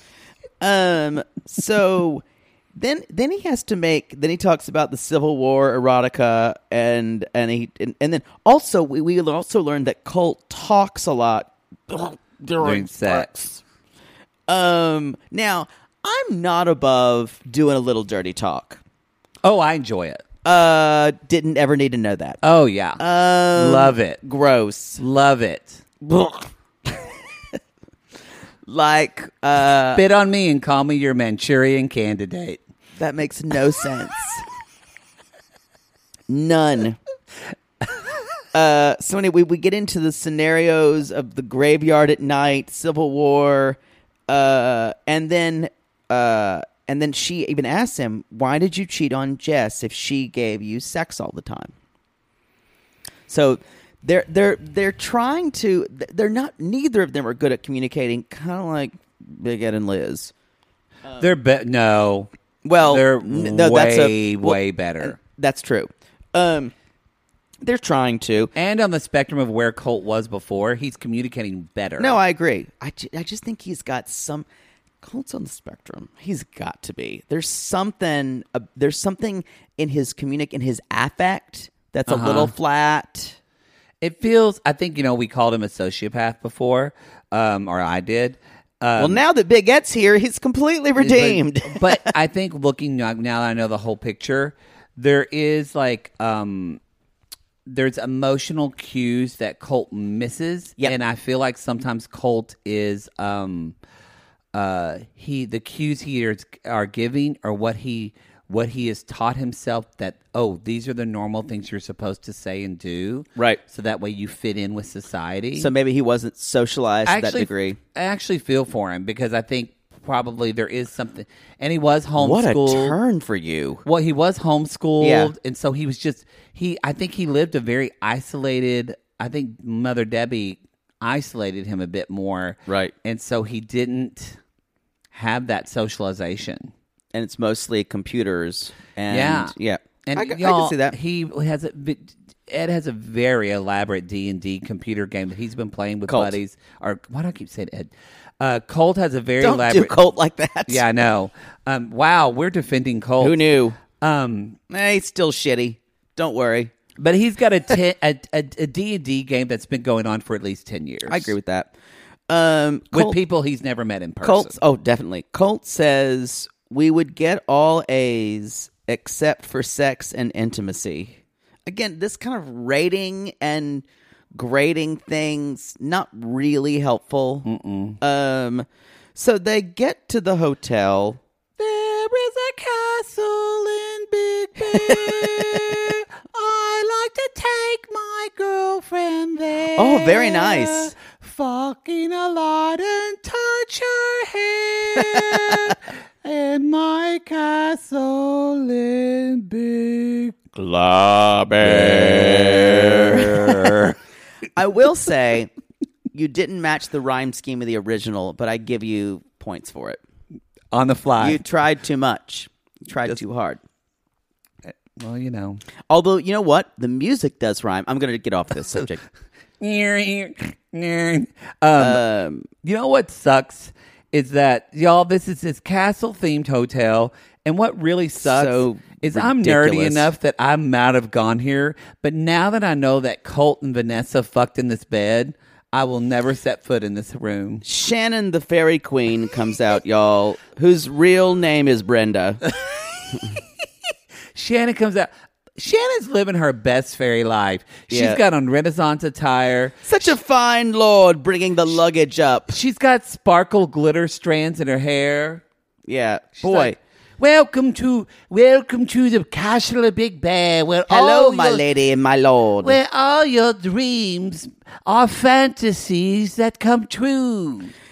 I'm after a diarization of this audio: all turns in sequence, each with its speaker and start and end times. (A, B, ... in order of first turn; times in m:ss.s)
0:00.6-0:02.2 A
0:02.7-0:13.6 A
0:12.6-0:13.3 B
0:14.5-0:18.8 A
0:19.4-0:20.2 B
0:20.4-0:22.4 A
0:22.4-0:23.0 B
0:23.0-0:25.0 A
0:23.5-0:24.2 B
0:25.0-0:25.8 B
0:26.0-0:27.1 A
0:28.6-0:30.0 A
0:29.9-0:32.6 B
0:33.0-0:34.4 A
0:36.3-0:37.0 A
0:38.5-0:51.7 A
0:53.3-1:00.3 A
1:01.0-1:01.3 A
1:01.2-1:02.3 B
1:02.6-1:06.7 A
1:02.8-1:05.2 B
1:07.6-1:08.5 A
1:08.5-1:12.2 B
1:12.0-1:14.4 A
1:15.0-1:23.4 A
1:22.1-1:22.5 B
1:24.0-1:29.2 B
1:29.0-1:32.1 A
1:31.0-1:36.8 B
1:37.6-1:43.8 B
1:44.5-1:55.7 B
1:55.6-1:57.8 A
1:57.0-2:03.0 B
2:02.2-2:03.8 A
2:03.8-2:14.4 B
2:05.0-2:05.3 A
2:12.7-2:12.9 A
2:15.1-2:16.7 B
2:17.1-2:21.0 A
2:19.1-2:19.5 B
2:20.0-2:30.0 B
2:26.1-2:26.4 A
2:29.4-2:30.8 A
2:30.7-2:34.6 B
2:33.2-2:33.8 A
2:34.7-2:36.7 A
2:37.0-2:41.3 B
2:41.1-2:41.7 A
2:42.3-2:43.2 A
2:42.9-2:44.6 B
2:44.2-2:57.5 A
2:57.4-2:58.0 B
2:58.0-3:01.2 A
3:01.6-3:20.4 B
3:04.7-3:05.6 A
3:09.8-3:10.9 A
3:15.3-3:15.6 A
3:20.5-3:23.7 A
3:21.6-3:24.0 B
3:24.6-3:25.5 A
3:26.1-3:30.0 A
3:30.7-3:31.4 B
3:31.2-3:33.6 A
3:34.6-3:35.6 B
3:35.9-3:39.0 A
3:39.6-3:42.0 B
3:41.8-3:42.5 A
3:42.6-3:57.6 B
3:48.2-3:50.1 A
3:57.6-4:02.4 A
4:04.3-4:09.9 B
4:07.9-4:08.2 A
4:09.8-4:12.5 A
4:12.5-4:15.4 B
4:15.9-4:16.8 A
4:16.4-4:21.6 B
4:20.9-4:22.8 A
4:22.6-4:27.7 B